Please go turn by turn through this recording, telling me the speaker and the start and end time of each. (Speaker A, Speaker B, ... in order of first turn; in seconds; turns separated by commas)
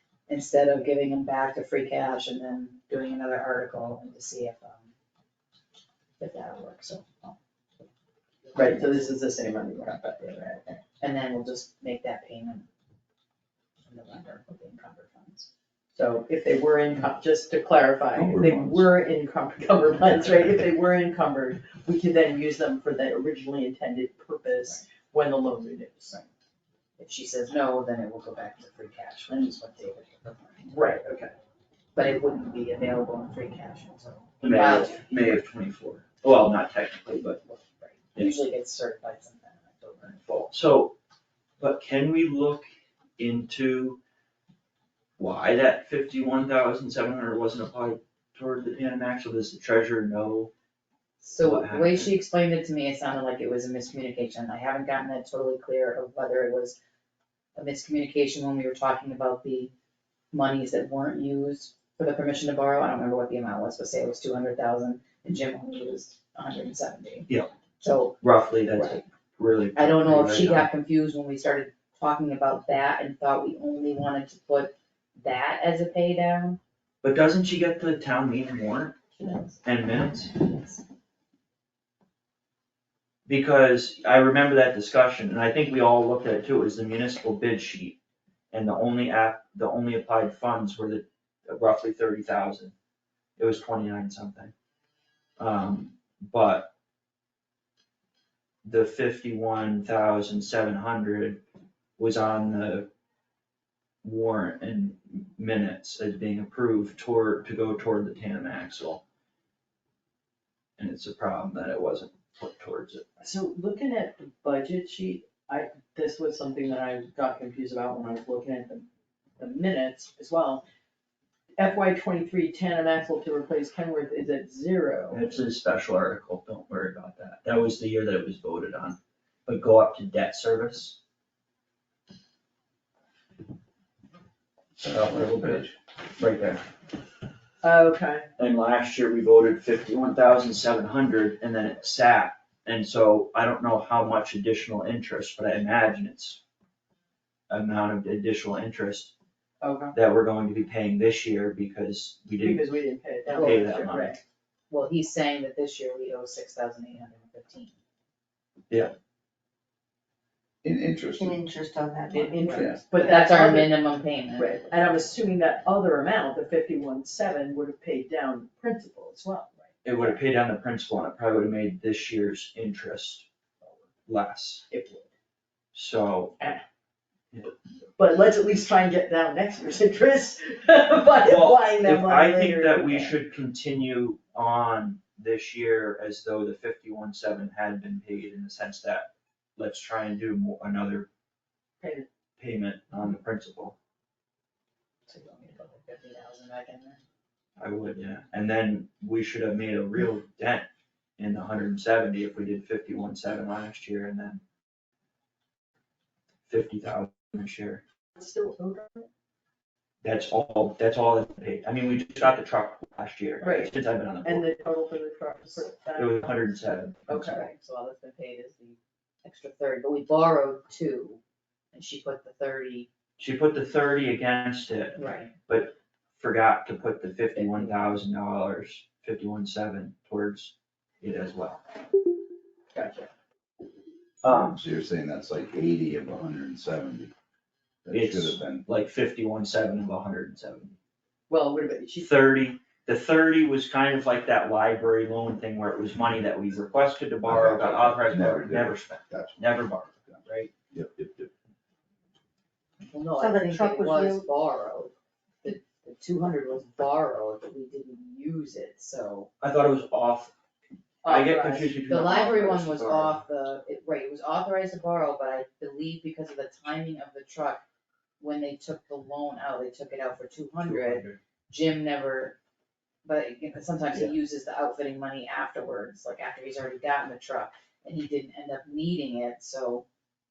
Speaker A: 0.3-4.9, Speaker A: 6.2-7.8, Speaker A: 8.4-9.0, Speaker B: 8.6-10.8, Speaker A: 11.0-12.7, Speaker A: 13.9-15.5, Speaker B: 15.9-26.2, Speaker C: 18.1-18.9, Speaker A: 27.0-30.8, Speaker B: 30.7-31.0, Speaker D: 31.1-31.3, Speaker A: 31.9-35.2, Speaker D: 34.4-37.4, Speaker A: 37.5-40.2, Speaker D: 40.2-41.0, Speaker D: 41.6-42.7, Speaker D: 43.2-44.0, Speaker D: 45.2-50.5, Speaker A: 51.2-56.8, Speaker D: 51.4-52.1, Speaker A: 57.5-59.7, Speaker A: 60.3-67.3, Speaker A: 67.8-68.2, Speaker D: 68.2-70.7, Speaker A: 68.8-69.0, Speaker A: 69.8-76.6, Speaker D: 77.0-79.0, Speaker A: 79.2-79.6, Speaker D: 79.6-80.4, Speaker A: 80.2-80.8, Speaker D: 83.3-88.0, Speaker D: 88.5-92.7, Speaker D: 93.4-94.5, Speaker D: 95.4-96.7, Speaker D: 98.7-101.4, Speaker D: 102.0-102.9, Speaker D: 104.0-109.0, Speaker D: 110.8-113.1, Speaker B: 113.2-118.9, Speaker B: 119.4-120.6, Speaker B: 121.6-125.3, Speaker D: 125.1-131.0, Speaker D: 134.8-136.6, Speaker C: 135.2-135.7, Speaker B: 137.6-138.3, Speaker D: 138.4-146.4, Speaker D: 147.5-149.1, Speaker B: 149.6-149.9, Speaker D: 149.9-152.7, Speaker B: 152.4-154.2, Speaker A: 153.3-153.8, Speaker D: 153.3-154.2, Speaker A: 154.7-157.8, Speaker C: 160.6-161.4, Speaker E: 161.2-162.6, Speaker B: 162.1-163.7, Speaker C: 162.5-162.8, Speaker A: 162.9-164.7, Speaker B: 164.4-170.2, Speaker D: 169.8-173.3, Speaker D: 174.1-174.7, Speaker B: 174.7-175.1, Speaker D: 175.7-176.4, Speaker B: 178.0-183.2, Speaker D: 181.2-191.1, Speaker B: 191.8-192.1, Speaker D: 192.4-193.8, Speaker A: 195.1-197.0, Speaker D: 197.6-200.7, Speaker D: 201.2-204.4, Speaker D: 206.5-207.8, Speaker B: 208.2-209.1, Speaker D: 210.0-214.5, Speaker B: 213.4-216.5, Speaker D: 216.0-217.4, Speaker A: 217.1-221.2, Speaker B: 217.1-217.4, Speaker A: 221.7-222.9, Speaker D: 223.2-231.6, Speaker A: 225.0-225.3, Speaker A: 227.4-227.7, Speaker B: 232.7-233.1, Speaker D: 234.2-234.6, Speaker C: 234.3-237.1, Speaker C: 237.8-238.6, Speaker D: 237.9-240.8, Speaker B: 241.3-242.1, Speaker D: 242.0-250.5, Speaker C: 247.3-250.2, Speaker C: 250.7-251.3, Speaker A: 252.8-259.3, Speaker E: 253.2-254.3, Speaker D: 259.4-260.3, Speaker B: 261.1-261.7, Speaker D: 261.1-263.2, Speaker A: 261.9-267.6, Speaker A: 268.2-272.4, Speaker D: 270.6-271.2, Speaker A: 273.0-279.8